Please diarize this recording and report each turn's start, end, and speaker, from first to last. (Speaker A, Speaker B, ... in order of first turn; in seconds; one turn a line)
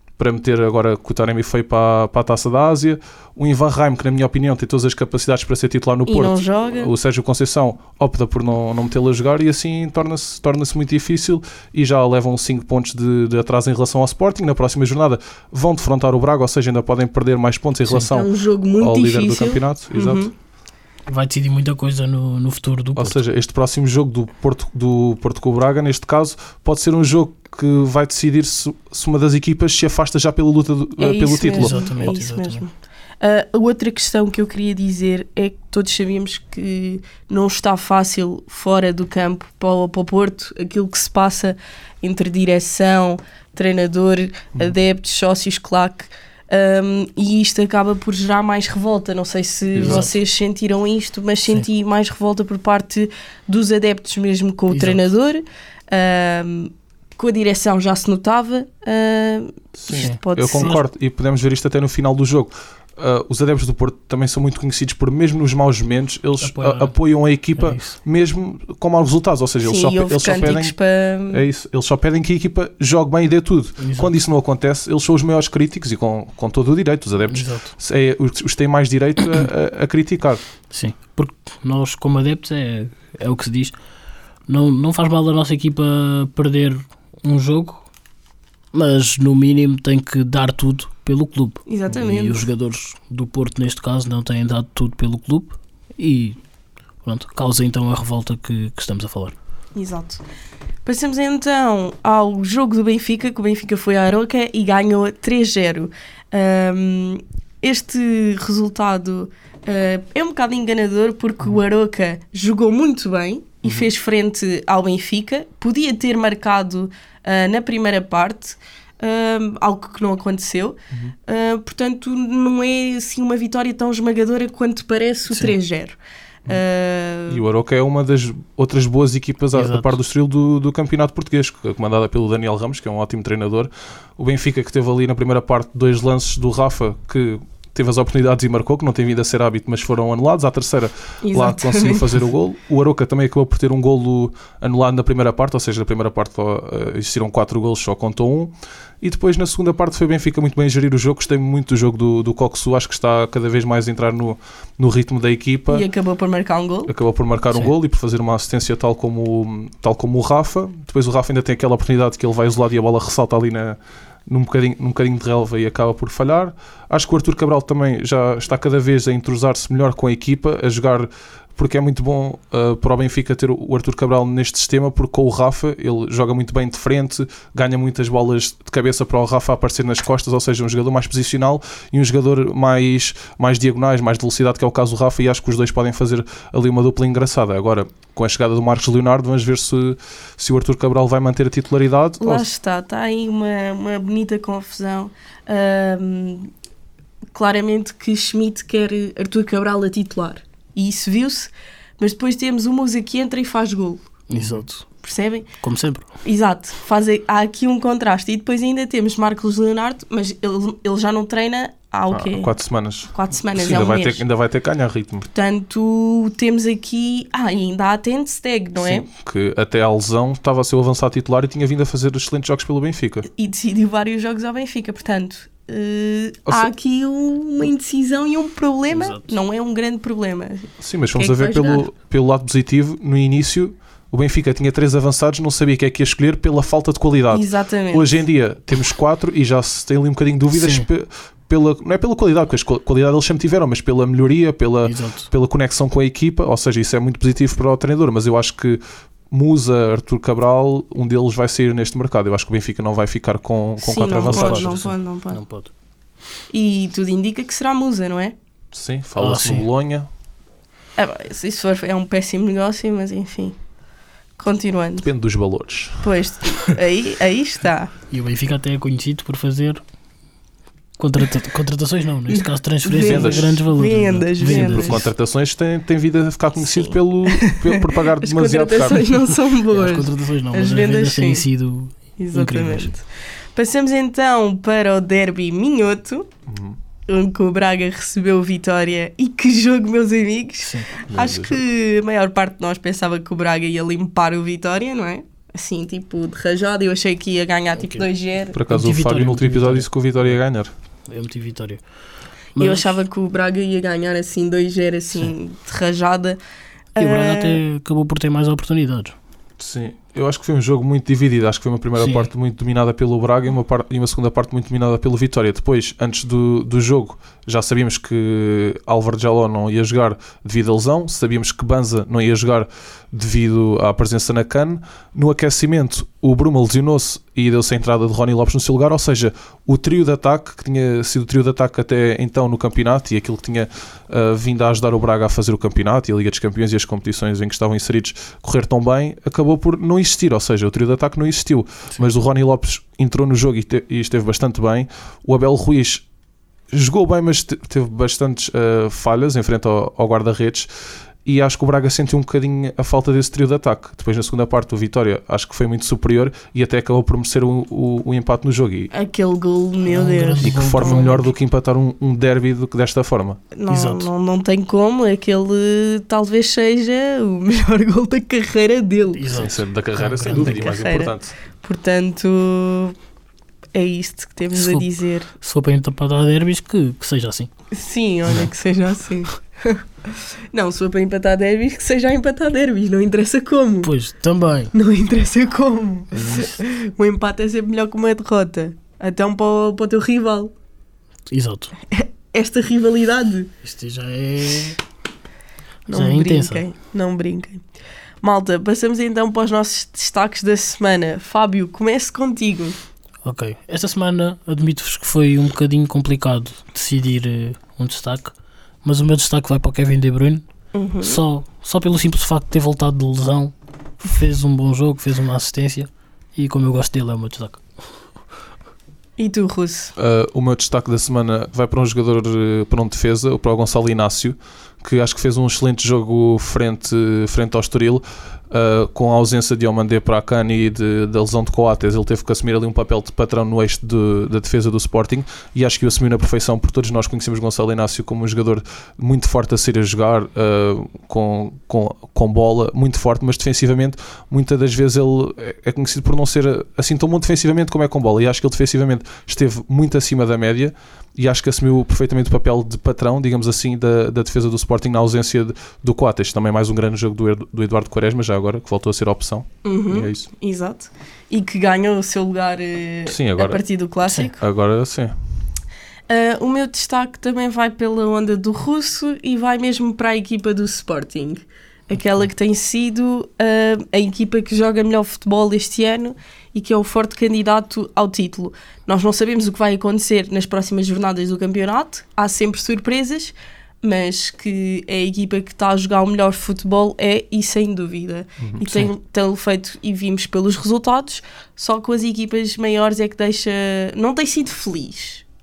Speaker A: 0.2-20.3
Speaker B: 6.1-6.9
Speaker B: 18.1-20.3
Speaker C: 21.1-23.2
Speaker A: 23.0-32.1
Speaker B: 31.0-60.8
Speaker C: 31.5-32.6
Speaker A: 49.8-50.1
Speaker C: 49.8-50.1
Speaker C: 54.7-55.0
Speaker A: 59.8-70.8
Speaker C: 59.9-60.8
Speaker C: 66.4-67.0
Speaker C: 67.6-68.0
Speaker B: 69.6-71.5
Speaker A: 71.3-80.4
Speaker C: 73.8-74.1
Speaker C: 77.3-77.7
Speaker C: 80.7-83.7
Speaker C: 84.5-87.9
Speaker C: 88.7-96.4
Speaker B: 91.7-92.5
Speaker C: 97.0-99.3
Speaker B: 99.8-100.2
Speaker B: 100.8-127.4
Speaker A: 113.6-113.9
Speaker C: 125.3-125.6
Speaker A: 127.3-155.9
Speaker C: 129.5-130.0
Speaker B: 141.2-142.2
Speaker B: 155.7-156.9
Speaker A: 156.9-192.5
Speaker B: 192.2-196.5
Speaker B: 197.3-204.0
Speaker C: 204.3-204.8
Speaker A: 204.4-204.7
Speaker B: 205.0-205.5
Speaker C: 205.6-206.1
Speaker B: 206.2-212.5
Speaker A: 212.1-215.3
Speaker B: 213.1-214.2
Speaker B: 215.3-219.1
Speaker A: 218.8-223.3
Speaker B: 223.3-231.9
Speaker C: 228.9-229.3
Speaker A: 230.8-254.8
Speaker B: 237.3-238.2
Speaker C: 240.5-240.9
Speaker C: 244.8-245.3
Speaker B: 253.8-255.4
Speaker C: 254.2-255.7
Speaker B: 256.5-258.4
Speaker A: 258.7-260.1
Speaker C: 259.2-259.7
Speaker B: 261.0-263.6
Speaker B: 264.4-265.1
Speaker A: 265.0-266.1
Speaker B: 266.0-267.9
Speaker C: 268.1-269.8
Speaker C: 271.0-275.1
Speaker B: 272.3-275.0
Speaker A: 273.0-273.6
Speaker A: 274.4-279.1
Speaker B: 276.6-281.5
Speaker C: 279.7-282.9
Speaker B: 282.2-286.3
Speaker A: 286.5-286.8
Speaker B: 287.1-298.6
Speaker C: 290.6-290.9
Speaker A: 291.1-291.6
Speaker C: 297.8-298.1
Speaker A: 298.5-300.7
Speaker C: 298.7-299.9
Speaker C: 301.1-301.8
Speaker C: 302.6-303.0
Speaker B: 302.6-306.4
Speaker B: 307.0-307.6
Speaker C: 307.0-309.2
Speaker A: 309.6-346.1
Speaker C: 312.0-312.3
Speaker A: 346.7-350.7
Speaker A: 351.2-358.9
Speaker B: 358.9-361.2
Speaker C: 359.9-361.2
Speaker A: 360.4-363.4
Speaker B: 363.5-369.4
Speaker C: 363.7-364.1
Speaker C: 369.1-370.7
Speaker A: 369.3-371.3
Speaker B: 370.3-373.0
Speaker B: 373.7-375.3
Speaker C: 374.5-377.5
Speaker B: 377.7-383.9
Speaker C: 383.8-384.7
Speaker B: 384.7-390.5
Speaker C: 386.2-386.6
Speaker C: 391.3-391.7
Speaker B: 391.9-393.5
Speaker C: 393.6-394.8
Speaker B: 395.9-397.6
Speaker C: 395.9-396.6
Speaker B: 398.2-402.8
Speaker C: 403.2-410.4
Speaker B: 410.7-411.2
Speaker C: 411.0-417.6
Speaker B: 419.2-419.9
Speaker A: 420.0-460.3
Speaker B: 459.6-464.4
Speaker A: 463.1-463.6
Speaker A: 464.4-465.1
Speaker B: 466.1-495.2
Speaker A: 488.4-488.7